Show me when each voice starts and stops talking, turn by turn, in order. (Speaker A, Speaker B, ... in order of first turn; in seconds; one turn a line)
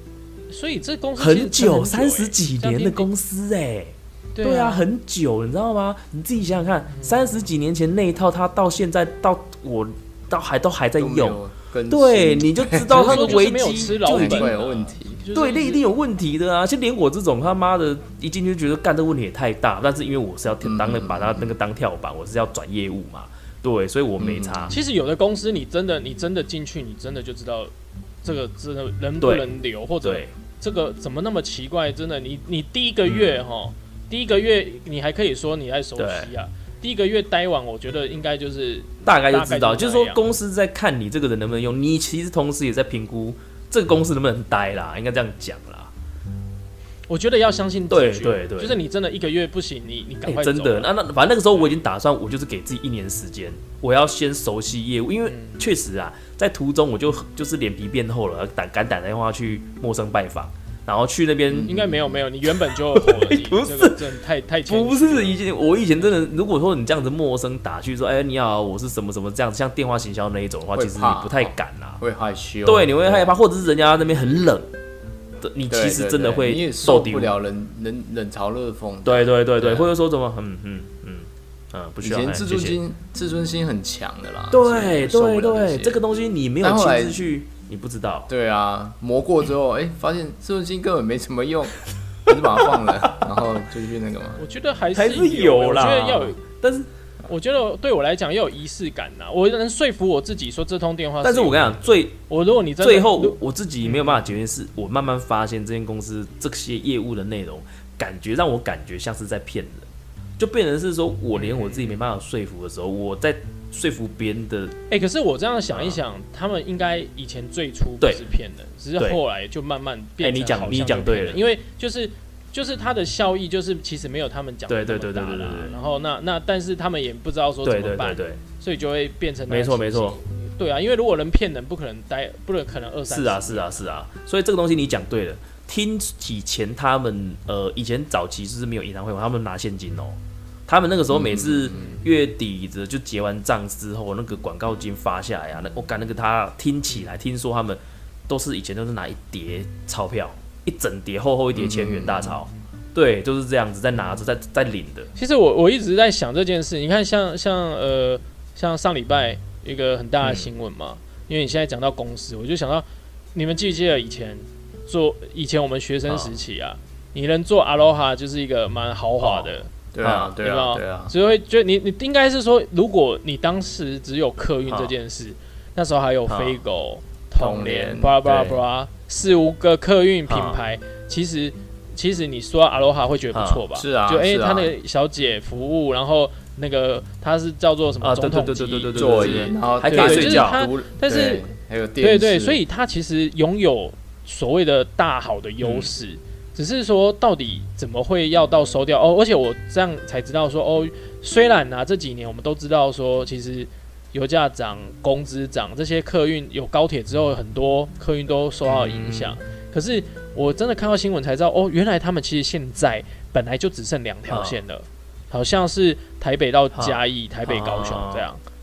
Speaker A: 0.5-3.1
Speaker B: 1.2-14.5
Speaker A: 4.3-4.9
Speaker A: 6.9-7.4
Speaker C: 11.0-13.5
Speaker A: 12.8-15.8
Speaker C: 14.0-15.2
Speaker B: 15.3-24.8
Speaker C: 20.6-21.5
Speaker C: 24.2-24.7
Speaker A: 24.7-27.7
Speaker A: 28.2-40.2
Speaker B: 29.2-29.5
Speaker B: 30.0-30.3
Speaker B: 33.1-33.3
Speaker B: 36.0-36.3
Speaker B: 39.0-45.9
Speaker A: 47.1-50.9
Speaker B: 47.9-48.8
Speaker B: 50.2-61.7
Speaker A: 55.3-55.6
Speaker C: 61.5-62.0
Speaker A: 61.6-65.4
Speaker B: 62.7-64.0
Speaker B: 64.7-72.0
Speaker C: 70.7-73.3
Speaker B: 72.6-74.7
Speaker B: 75.4-77.3
Speaker C: 75.7-79.9
Speaker B: 79.0-82.8
Speaker C: 82.0-86.0
Speaker B: 84.5-88.3
Speaker C: 86.6-87.2
Speaker C: 88.3-94.4
Speaker A: 94.4-96.4
Speaker B: 94.9-96.9
Speaker A: 97.2-104.2
Speaker B: 101.2-102.2
Speaker B: 102.8-114.8
Speaker A: 111.3-112.0
Speaker A: 114.9-133.9
Speaker B: 115.7-116.0
Speaker B: 120.2-121.4
Speaker B: 124.7-125.8
Speaker B: 127.6-128.4
Speaker B: 129.5-130.2
Speaker B: 133.1-155.1
Speaker C: 141.1-142.0
Speaker A: 141.7-142.1
Speaker C: 151.5-152.3
Speaker A: 155.2-169.7
Speaker B: 160.2-160.5
Speaker B: 166.1-166.3
Speaker B: 169.2-170.3
Speaker C: 169.9-171.1
Speaker A: 170.4-218.4
Speaker B: 174.7-174.9
Speaker B: 176.3-176.6
Speaker C: 177.4-178.6
Speaker B: 180.3-180.6
Speaker B: 183.3-183.6
Speaker C: 183.7-184.8
Speaker B: 188.0-190.6
Speaker C: 188.9-192.6
Speaker B: 195.6-195.9
Speaker B: 208.6-209.4
Speaker B: 214.3-214.6
Speaker B: 216.7-218.3